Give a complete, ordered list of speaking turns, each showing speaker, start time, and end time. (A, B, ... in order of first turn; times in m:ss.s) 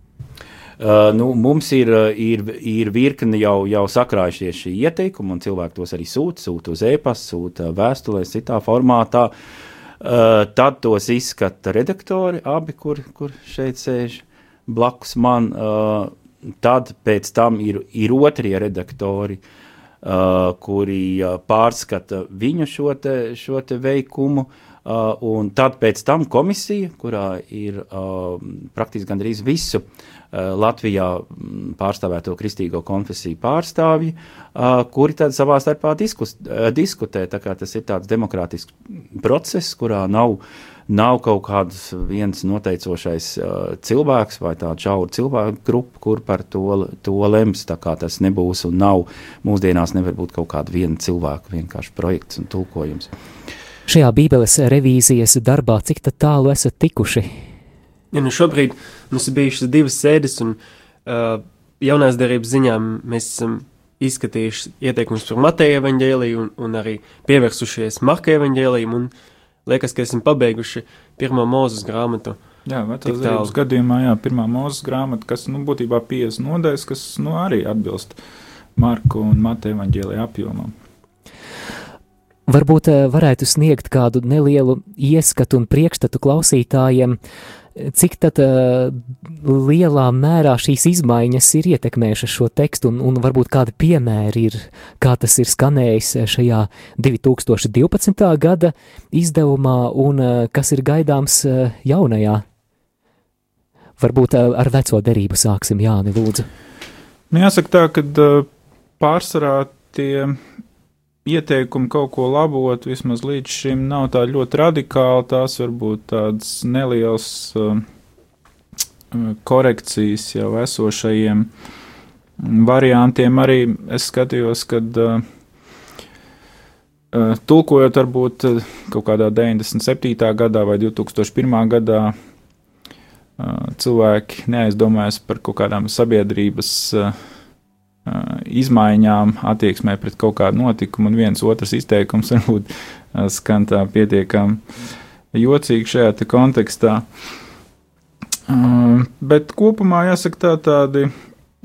0:00.8-0:09.3 A
0:10.0-0:19.4 A
0:20.0-0:53.1 A
0:53.9-0:57.3 B
0:58.1-1:09.1 C
1:09.6-1:12.4 C
1:12.6-1:18.2 D
1:13.0-1:13.5 C
1:18.8-1:20.7 D
1:22.5-1:27.2 B
1:27.8-1:42.4 B
1:44.0-1:46.5 B
1:47.3-1:48.5 D
1:49.0-1:50.4 D
1:51.2-1:57.8 D
1:59.1-2:01.5 D
2:02.4-2:05.2 D
2:07.1-2:12.1 D
2:13.4-2:17.2 D
2:18.0-2:24.6 D
2:25.3-2:27.1 D
2:28.5-2:31.1 D